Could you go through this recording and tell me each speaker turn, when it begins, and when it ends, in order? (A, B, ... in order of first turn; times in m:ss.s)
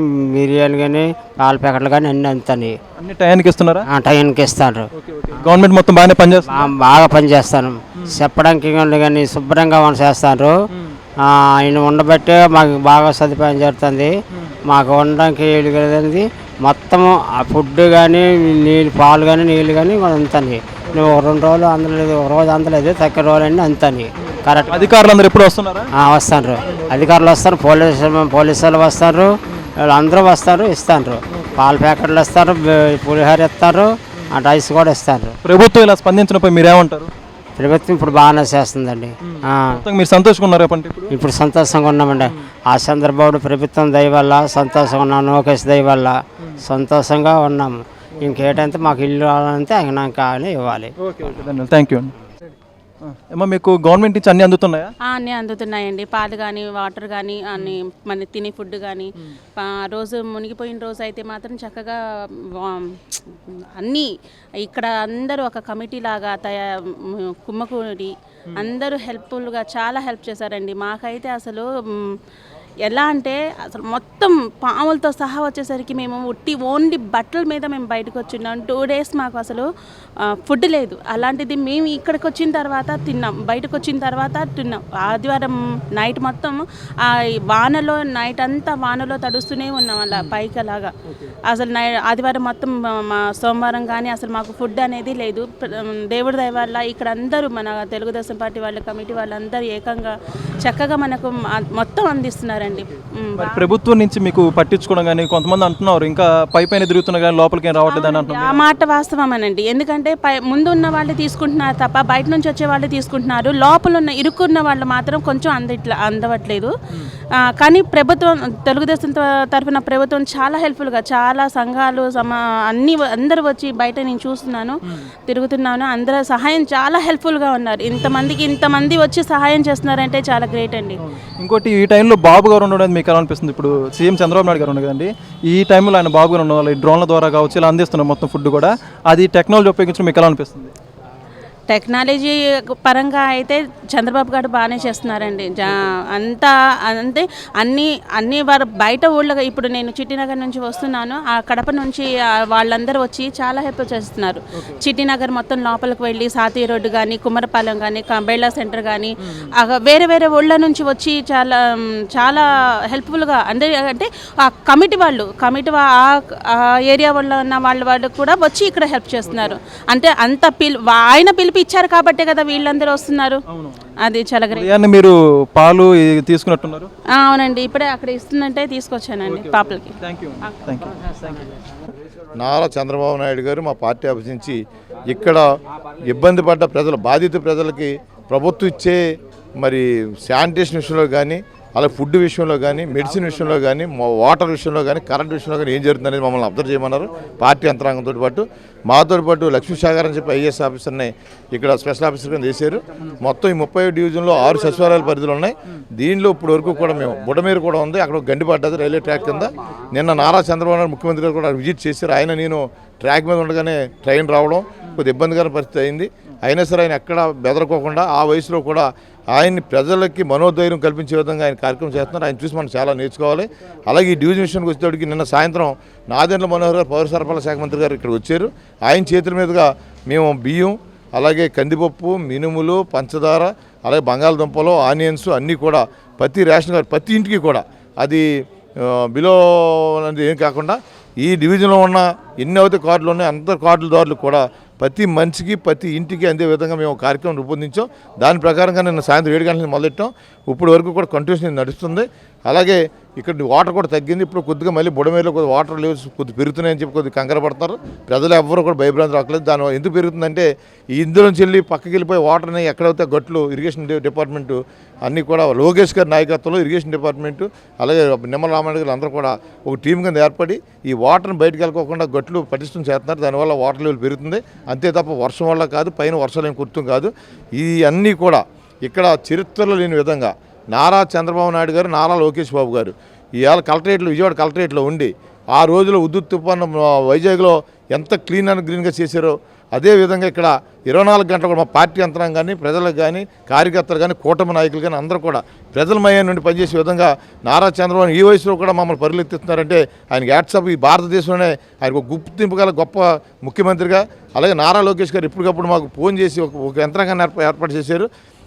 0:00.4-0:02.7 A
0:03.0-0:03.8 B
0:04.0-0:04.8 A
0:04.9-0:06.7 B
0:06.5-0:10.5 A
0:08.0-0:08.3 B
0:10.7-0:11.0 B
0:11.7-0:14.1 A
0:14.3-0:14.6 B
0:14.7-0:24.8 A
0:20.9-0:21.2 B
0:24.2-0:25.9 B
0:26.1-0:29.3 A
0:26.7-0:27.1 B
0:29.9-0:33.9 A
0:31.3-0:31.6 B
0:34.4-0:35.3 A
0:35.4-0:37.1 B
0:37.6-0:39.1 A
0:39.2-0:41.1 B
0:41.1-0:46.1 A
0:46.7-0:47.7 A
0:48.2-0:50.9 A
0:51.0-0:52.2 B
0:53.0-0:54.9 B
0:55.0-1:02.0 C
1:02.5-1:04.1 C
1:04.6-1:12.1 C
1:12.8-1:19.7 C
1:20.4-1:30.9 C
1:31.5-1:43.7 C
1:43.4-1:48.6 B
1:47.9-1:56.7 C
1:57.6-2:11.0 C
2:11.0-2:20.7 B
2:21.7-2:53.4 C
2:53.5-2:53.8 B
2:54.0-2:54.7 C
2:54.5-2:56.9 B
2:57.1-2:59.9 C
2:59.2-3:01.6 B
3:02.4-3:05.4 D
3:06.0-3:09.0 D
3:09.6-3:58.2 D
3:58.8-5:08.1 D